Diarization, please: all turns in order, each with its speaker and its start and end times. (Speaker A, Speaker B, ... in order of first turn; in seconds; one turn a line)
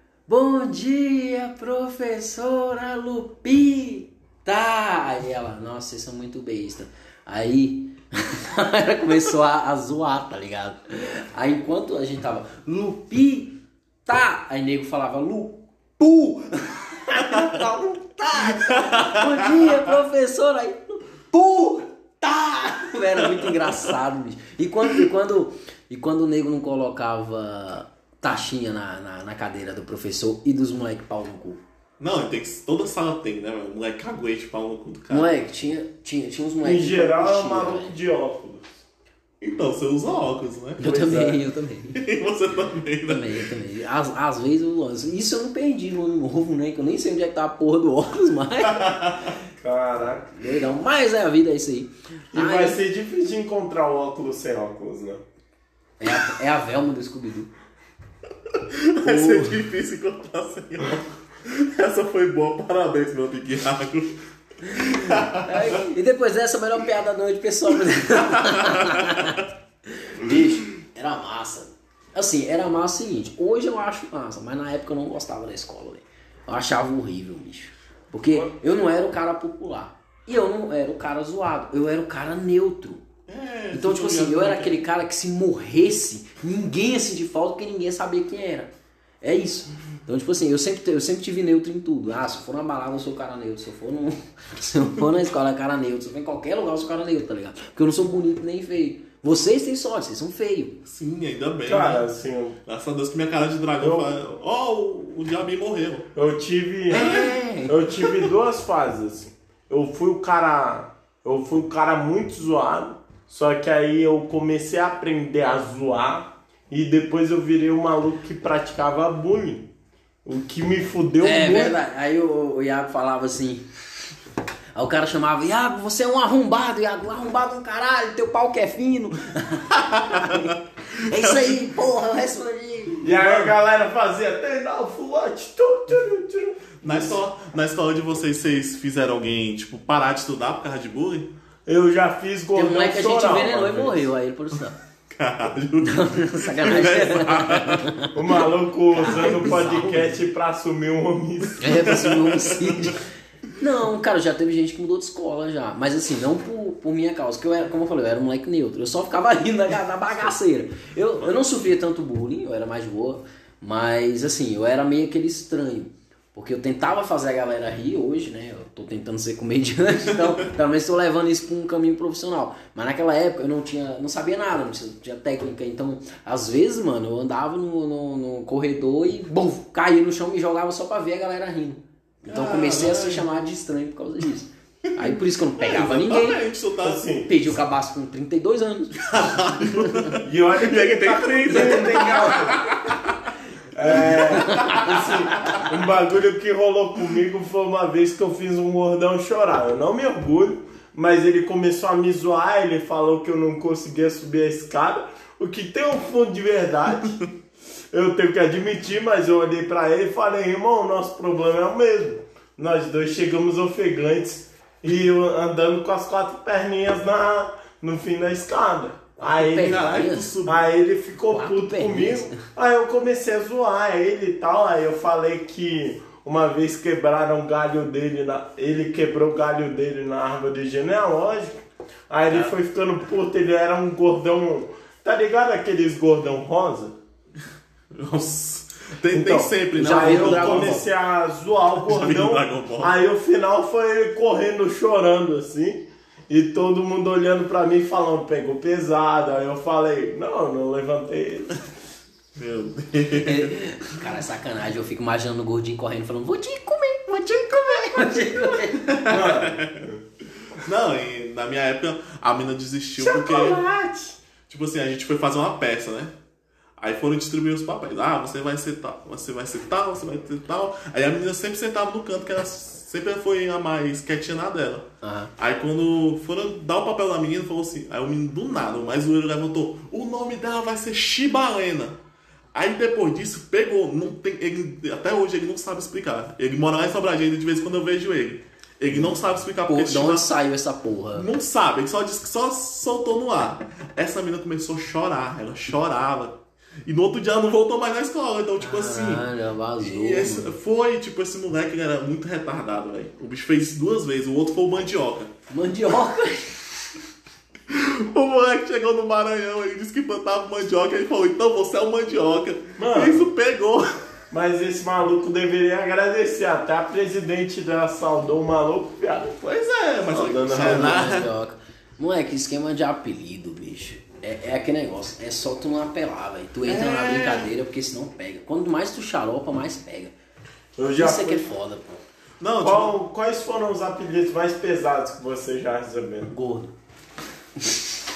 Speaker A: 0.3-31.6
Speaker B: 17.3-17.6
Speaker B: 18.4-19.8
Speaker B: 23.1-24.0
Speaker B: 32.0-35.3
Speaker A: 35.1-37.9
Speaker C: 36.6-38.8
Speaker B: 39.4-40.9
Speaker A: 40.8-42.0
Speaker C: 40.8-41.4
Speaker B: 42.0-43.5
Speaker A: 43.1-49.0
Speaker B: 48.6-49.3
Speaker C: 49.6-50.3
Speaker A: 50.4-52.8
Speaker C: 52.3-55.2
Speaker A: 56.0-57.5
Speaker B: 58.5-65.8
Speaker A: 59.0-59.6
Speaker A: 64.7-83.0
Speaker B: 68.2-69.4
Speaker B: 83.3-84.8
Speaker A: 83.7-88.7
Speaker A: 89.2-100.8
Speaker B: 100.9-102.0
Speaker C: 101.7-102.6
Speaker B: 102.7-106.1
Speaker C: 103.8-104.1
Speaker C: 106.2-119.7
Speaker A: 106.9-107.8
Speaker B: 106.9-107.3
Speaker C: 120.2-121.8
Speaker A: 121.2-123.7
Speaker A: 124.8-133.1
Speaker B: 129.7-130.6
Speaker B: 131.1-131.6
Speaker C: 133.0-137.2
Speaker B: 133.1-133.6
Speaker B: 136.8-141.3
Speaker C: 141.7-144.1
Speaker A: 142.6-144.8
Speaker B: 145.1-147.9
Speaker A: 145.8-150.1
Speaker C: 148.1-151.8
Speaker B: 149.1-149.6
Speaker A: 151.6-153.1
Speaker B: 151.7-153.0
Speaker A: 153.6-186.4
Speaker B: 182.3-183.3
Speaker B: 185.0-187.1
Speaker C: 186.8-187.3
Speaker A: 187.2-190.2
Speaker B: 189.0-193.2
Speaker C: 190.2-192.7
Speaker A: 191.5-192.7
Speaker C: 193.7-207.3
Speaker B: 193.8-195.7
Speaker A: 193.9-195.1
Speaker C: 207.9-219.8
Speaker A: 219.2-220.3
Speaker B: 219.4-220.6
Speaker C: 220.4-231.6
Speaker A: 221.3-222.4
Speaker C: 232.1-236.9
Speaker B: 237.9-240.8
Speaker C: 239.1-251.7
Speaker A: 239.8-240.8
Speaker B: 241.8-242.9
Speaker B: 252.3-253.6
Speaker A: 253.2-258.9
Speaker B: 257.2-259.9
Speaker C: 259.1-260.0
Speaker B: 260.5-263.6
Speaker C: 263.0-264.2
Speaker B: 264.5-266.1
Speaker B: 266.8-282.0
Speaker A: 275.0-275.3
Speaker B: 282.5-290.3
Speaker A: 288.9-291.3
Speaker B: 291.1-299.3
Speaker A: 298.6-300.5
Speaker B: 299.8-305.3
Speaker A: 305.5-306.6
Speaker B: 307.7-313.9
Speaker C: 312.8-313.3
Speaker C: 314.3-319.4
Speaker B: 319.4-321.3
Speaker C: 320.1-321.0
Speaker A: 320.5-330.1
Speaker B: 326.6-327.5
Speaker C: 330.8-331.5
Speaker A: 331.0-332.0
Speaker B: 332.4-333.0
Speaker C: 332.6-336.3
Speaker A: 336.3-336.7